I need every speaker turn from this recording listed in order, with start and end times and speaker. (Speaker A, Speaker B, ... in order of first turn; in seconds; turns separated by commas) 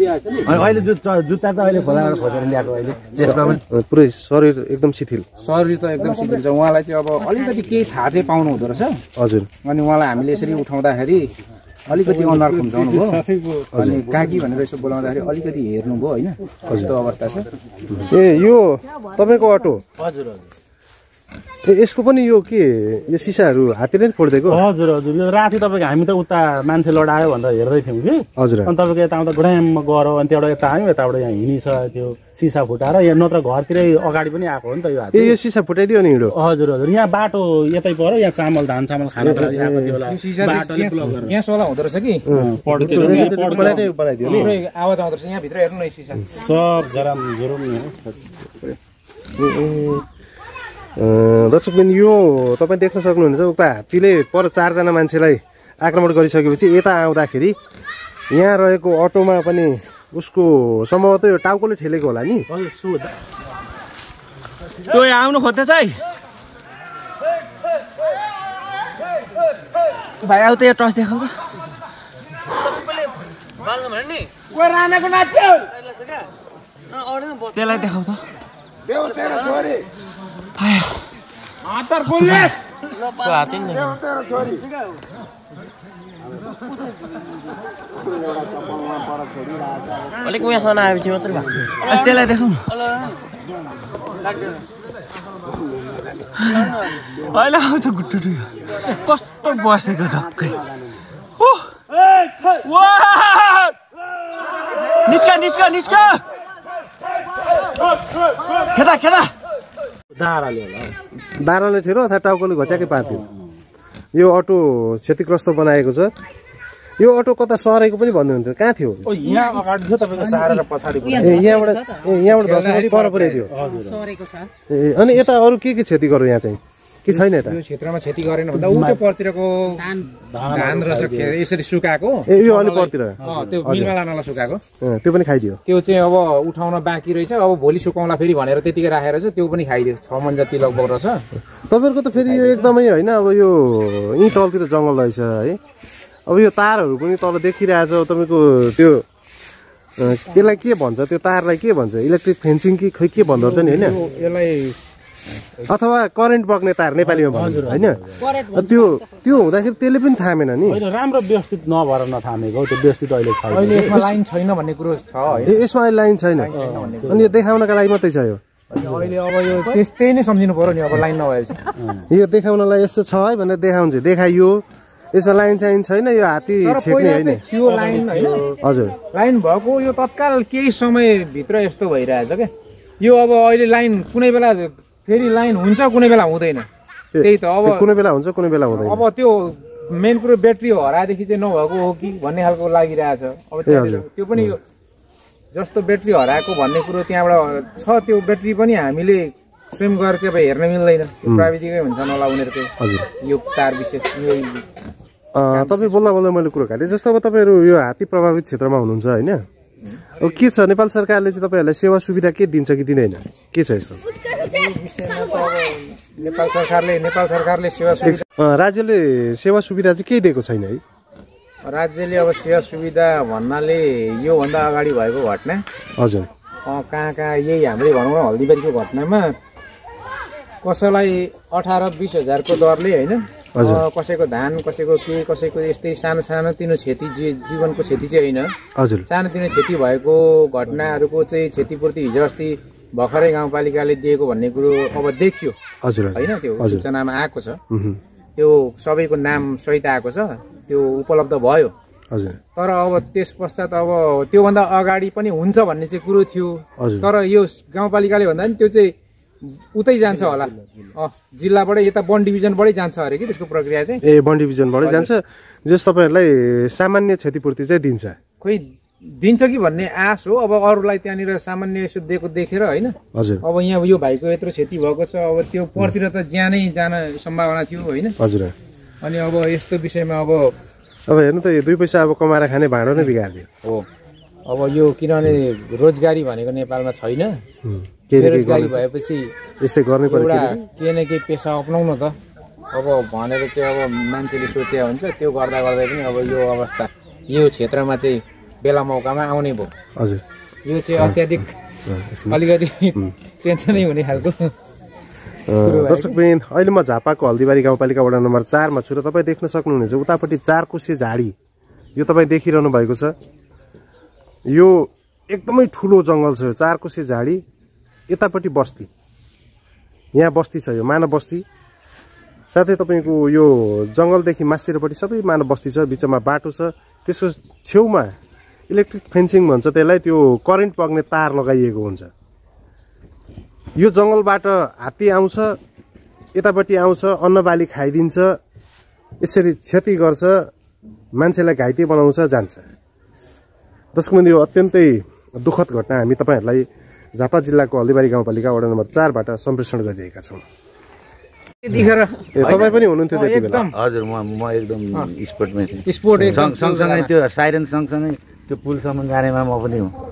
Speaker A: 0.4-3.6, Speaker B: 0.5-0.8, Speaker B: 3.2-5.2, Speaker C: 5.4-9.0, Speaker B: 9.2-9.5, Speaker C: 9.6-11.3, Speaker C: 11.9-17.5, Speaker D: 12.3-13.6, Speaker B: 13.7-14.0, Speaker B: 16.7-16.9, Speaker B: 17.9-19.8, Speaker D: 20.0-20.4, Speaker B: 21.6-24.6, Speaker D: 24.5-35.4, Speaker B: 28.4-28.7, Speaker B: 35.1-36.4, Speaker D: 36.3-41.3, Speaker B: 39.2-40.0, Speaker C: 40.0-42.2, Speaker B: 42.3-44.5, Speaker D: 42.3-44.5, Speaker C: 42.9-46.2, Speaker D: 46.4-48.1, Speaker B: 49.4-50.0, Speaker B: 51.0-57.5, Speaker B: 58.3-62.5, Speaker D: 62.5-63.1, Speaker E: 64.9-65.9, Speaker E: 70.2-71.3, Speaker E: 77.3-78.2, Speaker E: 83.0-84.0, Speaker E: 90.2-92.5, Speaker E: 97.4-97.9, Speaker E: 99.1-100.1, Speaker E: 105.0-106.2, Speaker A: 110.2-110.8, Speaker B: 111.3-113.2, Speaker B: 114.1-116.1, Speaker B: 117.0-119.0, Speaker D: 119.0-121.0, Speaker C: 120.3-121.5, Speaker B: 121.2-123.5, Speaker C: 122.0-123.5, Speaker D: 123.5-124.1, Speaker B: 124.7-127.6, Speaker C: 127.2-134.6, Speaker D: 128.6-129.0, Speaker D: 130.1-131.3, Speaker B: 132.3-133.9, Speaker D: 133.2-133.5, Speaker B: 134.8-135.6, Speaker C: 135.7-141.2, Speaker B: 141.7-145.6, Speaker C: 142.2-142.7, Speaker B: 146.3-149.1, Speaker B: 150.0-154.0, Speaker C: 153.3-154.8, Speaker B: 155.7-160.8, Speaker D: 157.1-157.9, Speaker D: 160.7-164.0, Speaker C: 163.5-165.6, Speaker B: 165.4-168.4, Speaker C: 166.4-167.2, Speaker D: 166.6-167.3, Speaker C: 168.7-171.7, Speaker B: 172.1-177.4, Speaker C: 176.6-178.5, Speaker B: 178.6-179.0, Speaker C: 179.1-186.7, Speaker B: 187.1-189.1, Speaker C: 187.2-187.9, Speaker C: 188.7-194.6, Speaker B: 193.6-194.5, Speaker C: 195.5-202.7, Speaker B: 201.2-201.5, Speaker B: 202.8-203.1, Speaker C: 203.2-204.7, Speaker B: 205.3-209.4, Speaker C: 205.5-206.0, Speaker B: 210.2-214.0, Speaker C: 214.3-218.2, Speaker B: 218.0-220.8, Speaker C: 221.6-225.6, Speaker B: 226.0-226.3, Speaker C: 226.7-229.3, Speaker C: 230.6-238.5, Speaker B: 233.6-233.8, Speaker B: 238.8-239.0, Speaker C: 239.1-245.6, Speaker B: 245.8-246.8, Speaker C: 246.1-247.6, Speaker B: 247.7-248.0, Speaker C: 248.4-251.7, Speaker B: 252.1-252.4, Speaker C: 252.5-258.9, Speaker B: 256.8-257.1, Speaker C: 259.4-264.0, Speaker B: 264.0-268.2, Speaker C: 264.8-265.1, Speaker C: 268.4-278.1, Speaker B: 273.1-273.4, Speaker B: 278.2-278.5, Speaker C: 279.0-280.5, Speaker B: 281.1-283.5, Speaker C: 284.4-287.4, Speaker B: 287.6-288.8, Speaker C: 288.1-289.3, Speaker B: 289.6-290.6, Speaker C: 290.1-292.1, Speaker C: 292.7-299.7, Speaker B: 299.9-300.2, Speaker C: 300.6-301.5, Speaker B: 301.9-302.4, Speaker C: 302.3-304.5, Speaker B: 305.5-311.3, Speaker C: 305.6-306.2, Speaker B: 311.9-313.1, Speaker B: 314.5-317.4, Speaker B: 318.1-318.9, Speaker B: 320.1-321.4, Speaker B: 322.5-328.1, Speaker B: 328.7-332.1, Speaker B: 333.8-335.6, Speaker B: 336.3-338.4, Speaker B: 339.2-340.5, Speaker B: 341.1-342.6, Speaker B: 343.9-350.4, Speaker C: 351.6-353.7, Speaker B: 352.3-353.7, Speaker A: 352.4-352.8, Speaker A: 353.7-359.9, Speaker C: 355.9-357.1